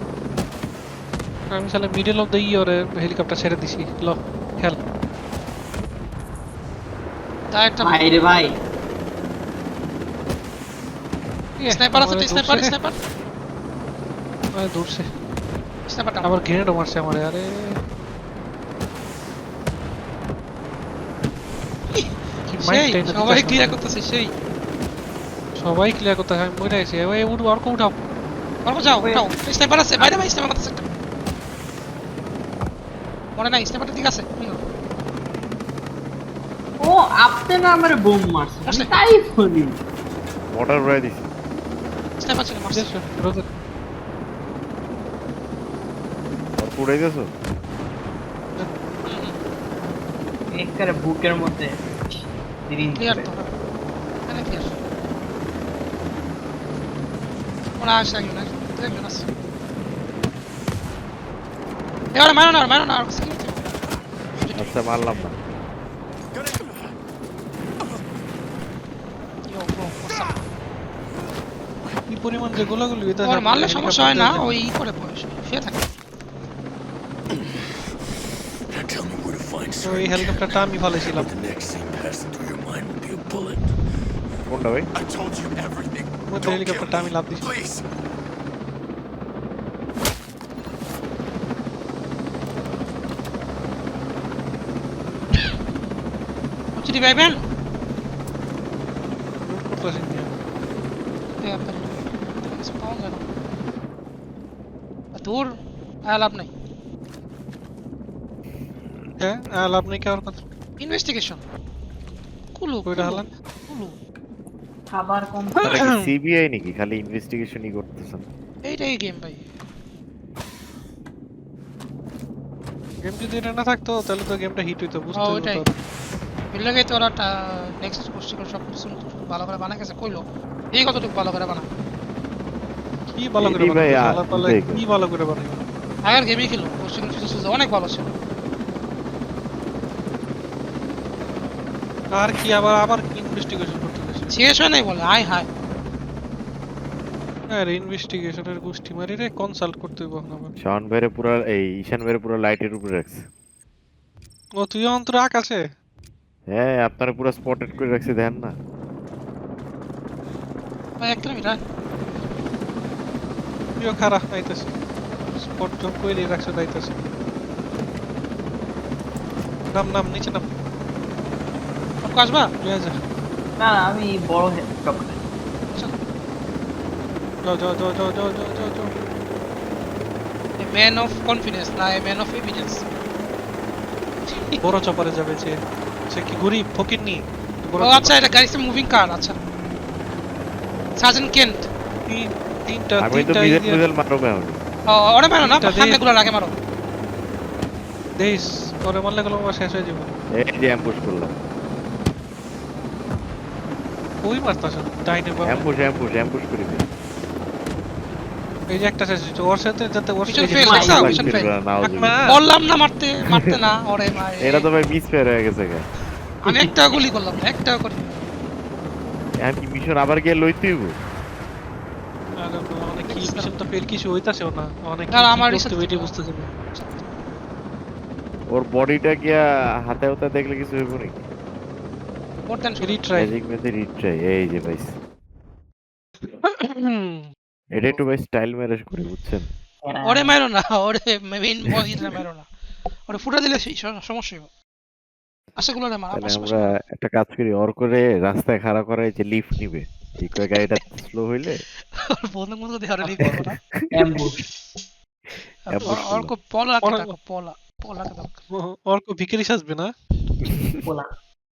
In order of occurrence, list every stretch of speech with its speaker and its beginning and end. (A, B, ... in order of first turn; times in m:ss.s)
0:01.5-0:04.8 A
0:07.5-0:08.0 B
0:07.8-0:08.6 C
0:11.6-0:12.7 A
0:11.7-0:13.0 B
0:14.5-0:15.1 A
0:15.9-0:16.3 B
0:16.2-0:17.8 A
0:22.5-0:23.8 A
0:22.6-0:24.3 B
0:25.6-0:27.9 A
0:28.6-0:30.8 B
0:29.0-0:29.3 C
0:33.4-0:34.6 B
0:36.8-0:39.8 C
0:40.5-0:41.3 D
0:42.2-0:42.9 B
0:42.7-0:43.5 A
0:46.6-0:47.3 D
0:49.0-0:49.4 B
0:50.5-0:51.8 C
0:52.7-0:53.3 C
0:52.9-0:53.5 B
0:54.3-0:54.7 B
0:57.8-0:59.3 B
1:02.1-1:03.7 B
1:04.4-1:04.7 B
1:04.5-1:05.4 D
1:09.4-1:10.4 B
1:12.1-1:14.5 A
1:13.2-1:15.9 B
1:17.3-1:17.6 E
1:18.7-1:23.7 E
1:19.8-1:21.3 A
1:24.5-1:24.9 D
1:24.9-1:28.0 E
1:26.2-1:27.5 A
1:36.7-1:37.4 B
1:39.4-1:40.3 A
1:41.4-1:43.2 B
1:45.1-1:46.5 B
1:49.2-1:50.4 A
1:50.8-1:51.4 B
1:52.5-1:54.0 B
1:52.8-1:53.3 A
1:54.9-1:55.6 C
1:55.6-1:55.9 A
1:55.6-1:58.2 D
1:58.6-1:59.4 B
2:03.0-2:05.7 A
2:05.2-2:05.6 B
2:06.5-2:11.7 B
2:13.1-2:15.6 A
2:13.4-2:14.8 D
2:16.0-2:18.1 B
2:22.1-2:24.3 A
2:24.3-2:25.5 B
2:27.5-2:30.5 A
2:30.6-2:33.2 D
2:34.6-2:35.6 A
2:36.5-2:38.5 D
2:41.0-2:41.6 B
2:43.8-2:44.7 A
2:45.4-2:47.0 A
2:49.7-2:50.5 A
2:52.0-2:52.5 B
2:52.6-2:53.0 A
2:53.6-2:55.2 C
2:57.4-2:58.9 A
3:00.6-3:02.8 B
3:04.3-3:04.6 B
3:04.6-3:05.6 A
3:06.1-3:08.2 A
3:07.8-3:09.4 B
3:11.0-3:11.7 B
3:12.0-3:13.8 A
3:13.0-3:14.6 D
3:14.9-3:16.5 B
3:15.4-3:16.0 A
3:18.2-3:20.2 A
3:20.3-3:21.4 D
3:24.2-3:25.7 A
3:25.4-3:26.9 D
3:28.7-3:31.0 A
3:30.3-3:31.5 B
3:30.5-3:31.2 C
3:30.7-3:32.2 D
3:31.8-3:32.4 A
3:32.3-3:34.7 B
3:34.4-3:35.8 D
3:36.4-3:38.3 B
3:36.4-3:36.7 C
3:39.4-3:40.9 D
3:42.4-3:46.5 A
3:43.1-3:43.5 B
3:45.1-3:47.2 B
3:48.5-3:51.2 D
3:52.5-3:53.0 B
3:52.8-3:53.3 A
3:53.1-3:55.0 D
3:56.2-3:58.0 A
3:57.7-3:59.5 D
3:59.8-4:00.4 C
4:00.0-4:02.5 B
4:03.1-4:04.5 B
4:05.6-4:06.7 B
4:06.1-4:11.6 D
4:12.0-4:13.6 B
4:13.2-4:13.9 D
4:13.9-4:14.4 C
4:15.7-4:18.4 B
4:15.7-4:16.3 D
4:16.8-4:17.1 A
4:18.5-4:19.9 A
4:20.8-4:21.1 C